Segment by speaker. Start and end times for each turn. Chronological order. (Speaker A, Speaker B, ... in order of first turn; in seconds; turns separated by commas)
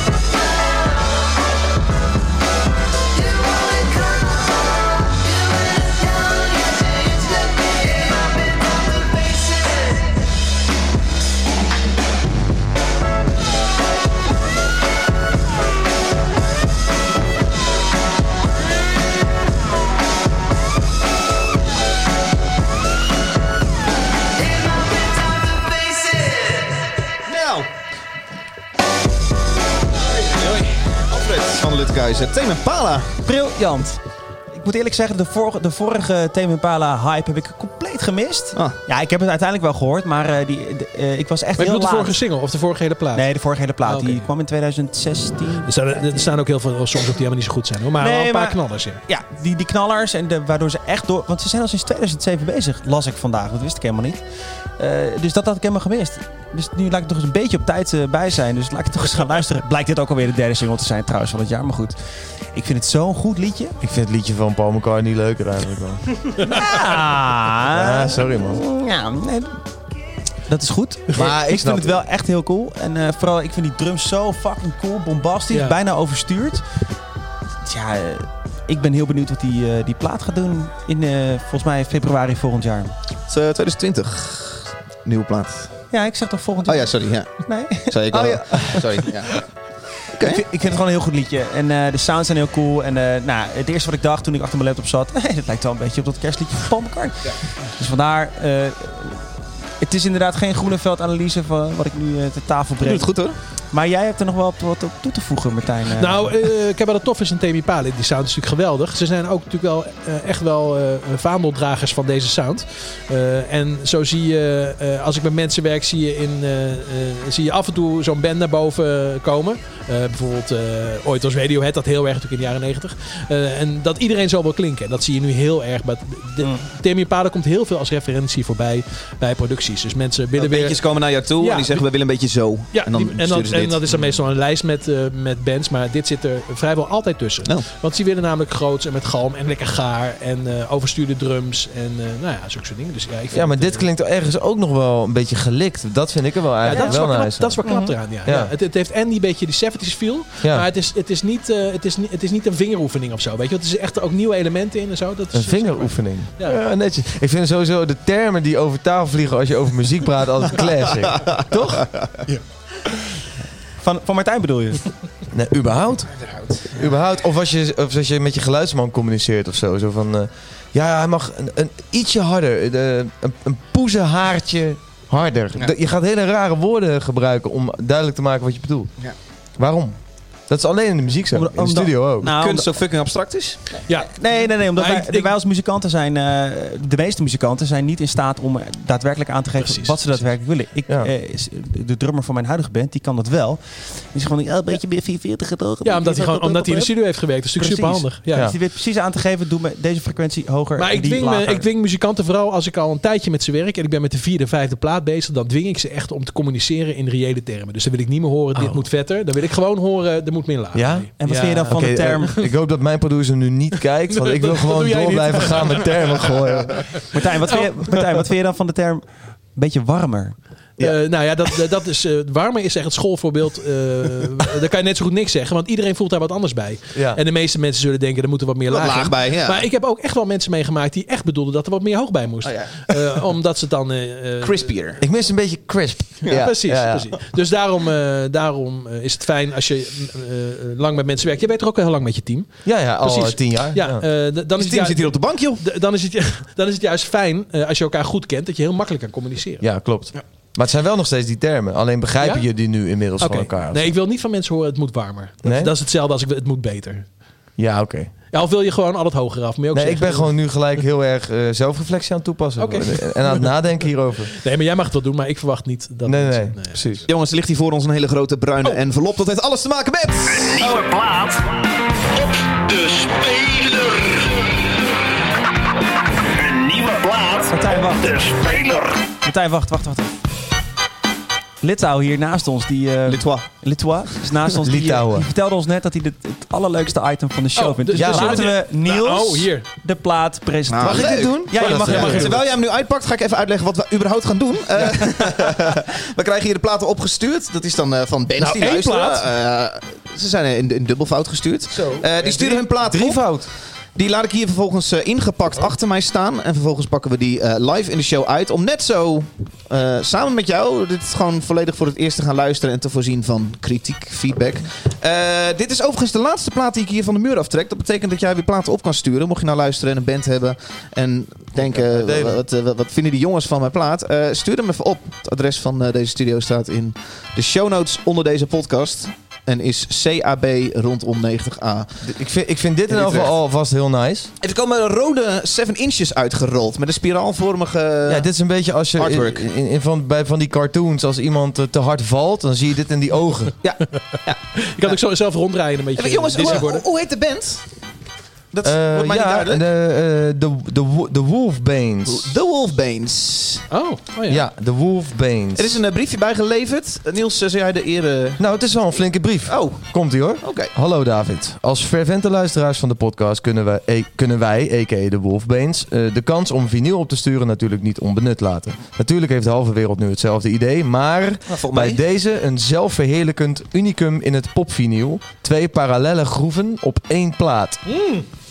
Speaker A: 3.2-4.4, Speaker A: 5.0-8.3, Speaker A: 8.9-9.4, Speaker A: 25.5-26.3, Speaker B: 27.2-27.7, Speaker B: 29.9-33.2, Speaker C: 33.2-34.0, Speaker C: 34.5-42.1, Speaker D: 41.6-43.3, Speaker C: 43.1-46.3, Speaker D: 43.8-44.3, Speaker D: 45.6-49.0, Speaker C: 48.0-62.0, Speaker C: 62.5-63.8, Speaker E: 63.8-66.2, Speaker C: 66.5-69.6, Speaker E: 67.7-68.6, Speaker C: 70.5-76.6, Speaker E: 71.1-72.0, Speaker D: 75.5-75.7, Speaker C: 77.6-82.9, Speaker B: 83.3-85.9, Speaker C: 85.9-89.2, Speaker B: 86.6-89.4, Speaker B: 90.2-90.4, Speaker C: 90.2-103.1, Speaker B: 102.8-103.4, Speaker C: 103.7-106.3, Speaker D: 106.0-130.8, Speaker B: 130.4-133.8, Speaker D: 131.4-131.8, Speaker D: 132.7-143.9, Speaker E: 143.3-147.6, Speaker D: 146.6-156.6, Speaker C: 147.6-147.9, Speaker E: 148.2-148.5, Speaker E: 150.4-150.7, Speaker E: 155.3-162.0, Speaker C: 163.8-164.9, Speaker E: 165.3-166.1, Speaker B: 166.3-166.7, Speaker E: 166.7-178.9, Speaker E: 179.6-182.3, Speaker C: 181.3-182.7, Speaker B: 182.3-183.6, Speaker D: 183.9-185.3, Speaker C: 184.1-196.9, Speaker D: 189.6-190.2, Speaker D: 195.8-198.5, Speaker C: 197.6-201.7, Speaker D: 200.8-211.7, Speaker E: 208.6-208.8, Speaker E: 210.7-211.1, Speaker C: 211.2-212.4, Speaker E: 211.7-217.1, Speaker D: 214.1-216.0, Speaker D: 216.8-218.2, Speaker C: 217.1-220.4, Speaker D: 220.8-234.7, Speaker E: 226.9-227.2, Speaker B: 228.7-229.7, Speaker B: 232.4-233.0, Speaker B: 234.4-235.0, Speaker E: 235.0-237.1, Speaker D: 236.2-249.6, Speaker E: 242.6-244.0, Speaker B: 244.6-245.6, Speaker E: 249.6-253.9, Speaker D: 252.2-257.1, Speaker E: 255.4-255.7, Speaker E: 257.6-258.1, Speaker D: 258.3-260.3, Speaker E: 259.7-264.3, Speaker D: 262.6-263.8, Speaker D: 264.3-267.0, Speaker E: 266.1-267.0, Speaker B: 267.1-270.8, Speaker F: 270.3-271.6, Speaker F: 272.1-274.3, Speaker F: 276.3-279.0, Speaker C: 277.4-278.3, Speaker C: 279.2-280.1, Speaker C: 281.6-292.4, Speaker B: 283.1-283.5, Speaker E: 284.6-285.3, Speaker D: 287.6-289.6, Speaker E: 288.0-288.5, Speaker B: 290.7-332.0, Speaker E: 290.8-292.3, Speaker D: 291.6-292.3, Speaker D: 298.4-299.2, Speaker E: 302.2-303.5, Speaker E: 321.6-322.4, Speaker E: 332.0-334.3, Speaker B: 332.9-333.3, Speaker B: 334.4-338.3, Speaker E: 338.1-343.5, Speaker B: 338.9-339.4, Speaker B: 343.6-345.0, Speaker D: 344.6-346.8, Speaker B: 345.9-347.6, Speaker B: 348.5-349.6, Speaker E: 348.6-352.3, Speaker B: 352.1-353.7, Speaker D: 353.7-354.4, Speaker E: 354.3-355.7, Speaker B: 355.6-358.4, Speaker E: 358.4-377.8, Speaker B: 359.4-360.7, Speaker B: 371.5-372.0, Speaker D: 377.9-378.2